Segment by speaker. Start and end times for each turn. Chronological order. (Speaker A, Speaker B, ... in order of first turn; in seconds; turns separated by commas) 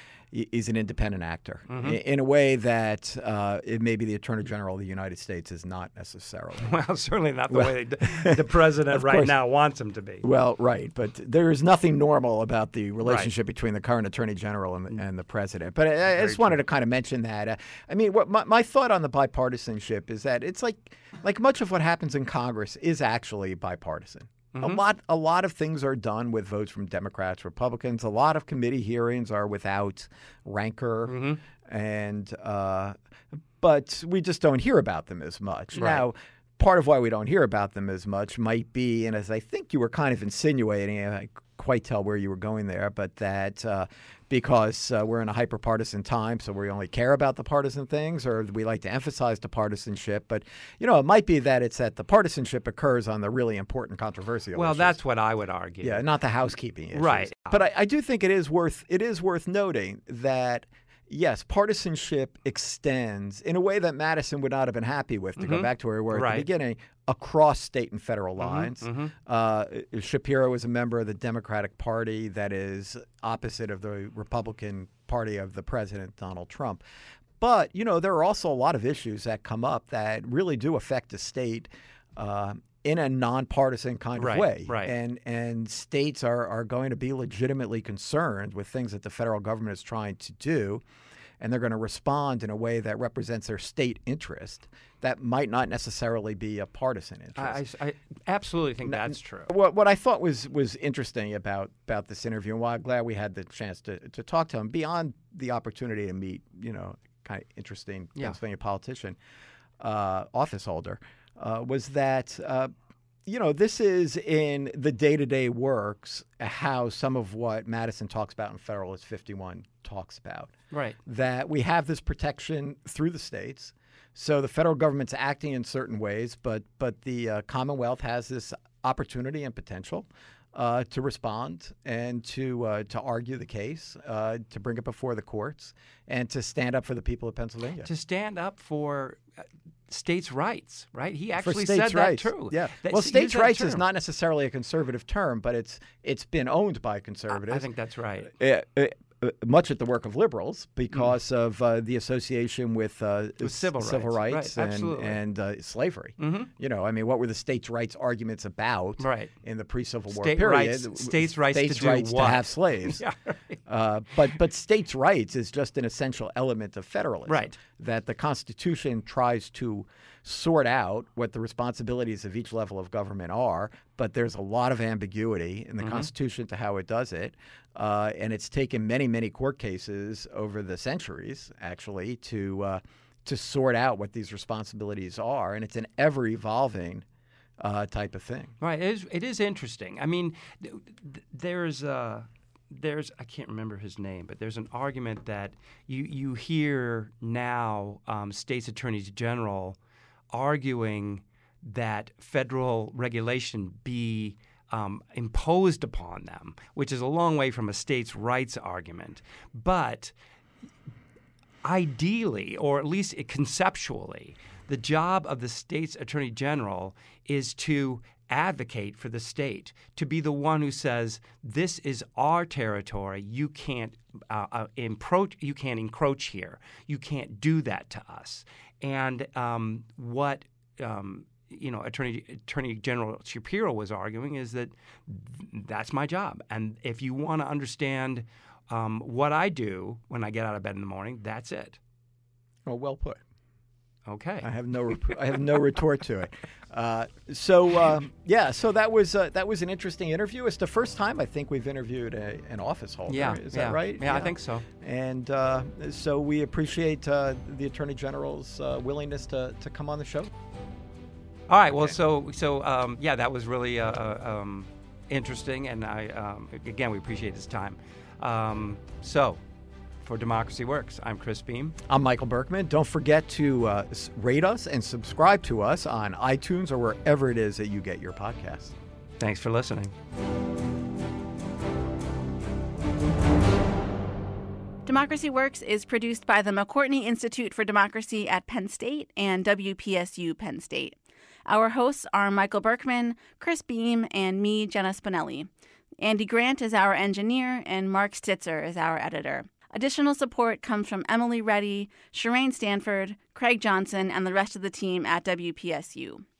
Speaker A: 0.3-6.8, Speaker B: 1.7-2.0, Speaker B: 6.6-10.2, Speaker A: 7.5-9.3, Speaker A: 10.2-33.0, Speaker B: 13.0-13.3, Speaker B: 16.1-16.6, Speaker B: 24.6-24.8, Speaker B: 31.1-31.4, Speaker A: 33.6-55.0, Speaker B: 35.7-36.0, Speaker B: 54.5-56.0, Speaker A: 55.8-76.8, Speaker B: 56.9-57.7, Speaker B: 65.4-66.5, Speaker B: 68.4-69.1, Speaker A: 77.4-90.8, Speaker B: 84.2-84.9, Speaker A: 91.4-97.6, Speaker B: 97.4-99.5, Speaker A: 98.8-109.2, Speaker A: 109.8-112.7, Speaker A: 113.3-120.5, Speaker B: 120.7-121.0, Speaker A: 121.1-137.9, Speaker B: 137.8-139.2, Speaker B: 139.9-143.8, Speaker A: 141.4-147.7, Speaker B: 147.3-148.3, Speaker A: 148.3-163.0, Speaker B: 153.4-155.2, Speaker B: 156.2-156.5, Speaker B: 159.0-159.3, Speaker B: 160.1-163.6, Speaker A: 163.7-187.1, Speaker B: 167.3-167.6, Speaker B: 175.8-176.1, Speaker A: 187.6-188.5, Speaker B: 188.6-199.8, Speaker B: 200.3-210.1, Speaker B: 211.6-241.8, Speaker A: 242.7-243.2, Speaker B: 244.1-244.5, Speaker A: 244.4-260.3, Speaker B: 253.1-254.7, Speaker B: 261.5-269.4, Speaker B: 270.0-271.8, Speaker A: 271.9-278.7, Speaker B: 279.2-279.9, Speaker C: 284.9-291.0, Speaker C: 291.5-295.5, Speaker C: 296.0-306.2